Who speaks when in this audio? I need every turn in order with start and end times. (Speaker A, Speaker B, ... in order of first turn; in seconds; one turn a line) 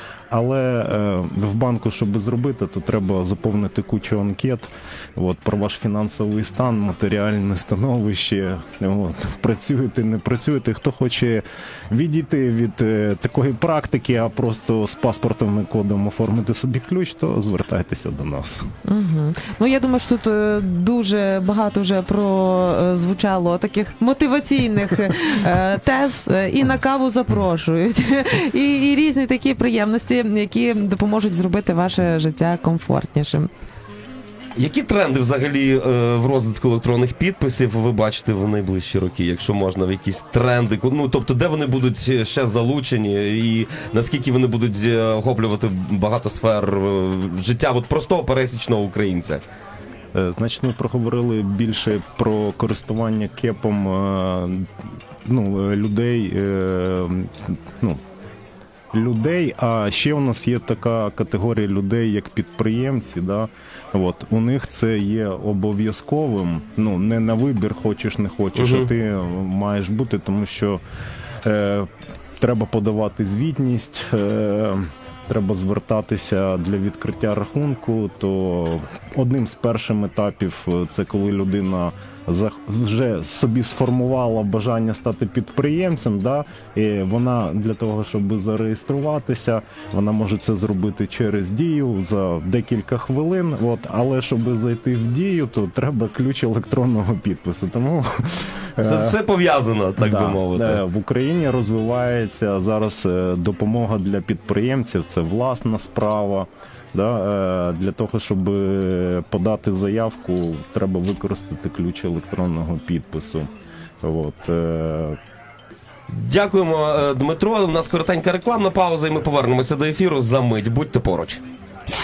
Speaker A: 0.3-18.6
Speaker B: 18.9-33.5
Speaker C: 34.5-49.4
Speaker A: 50.1-54.7
Speaker A: 55.2-58.0
Speaker A: 58.9-70.8
Speaker C: 68.5-68.9
Speaker A: 71.4-71.9
Speaker A: 72.4-99.2
Speaker C: 98.8-100.8
Speaker A: 100.0-113.5
Speaker A: 114.0-115.2
Speaker C: 116.1-121.4